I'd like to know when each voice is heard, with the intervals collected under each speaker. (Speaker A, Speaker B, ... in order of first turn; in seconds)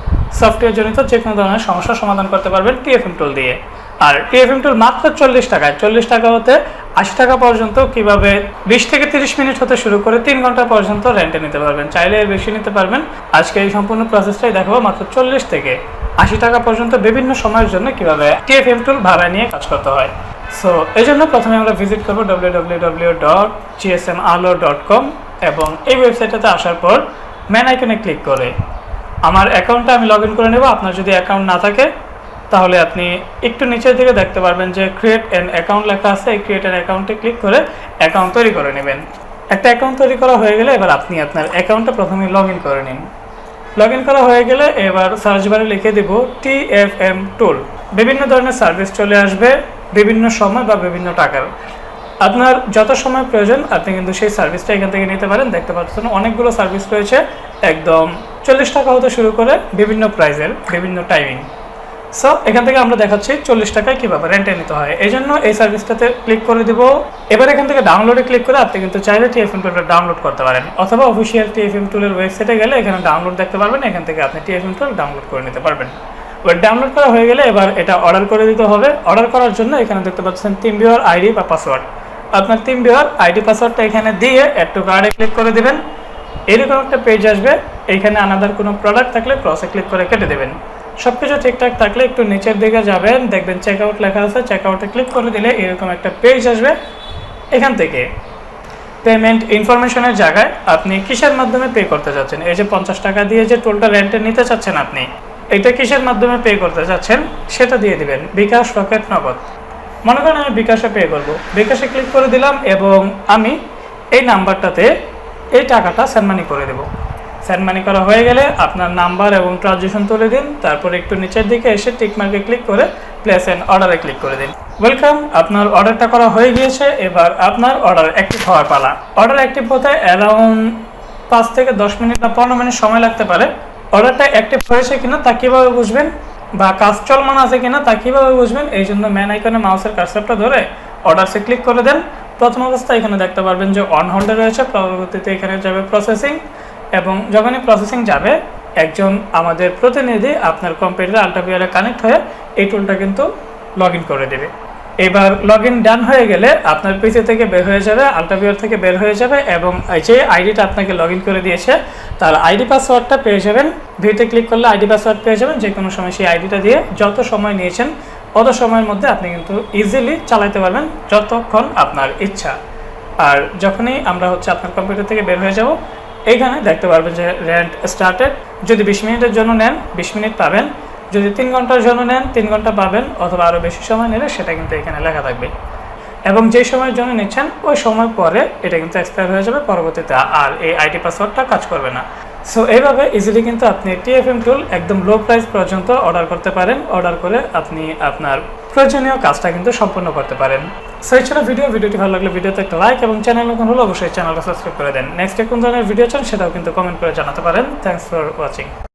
Speaker A: 0.4-28.5, 29.2-31.9, 32.5-43.0, 43.8-51.5, 52.2-61.4, 62.1-85.8, 86.5-96.7, 97.5-98.1, 99.0-109.4, 110.0-113.5, 114.1-114.9, 115.6-116.9, 117.4-146.4, 147.0-153.3, 153.8-154.5, 155.0-172.5, 173.2-175.8, 176.3-185.5, 186.3-208.7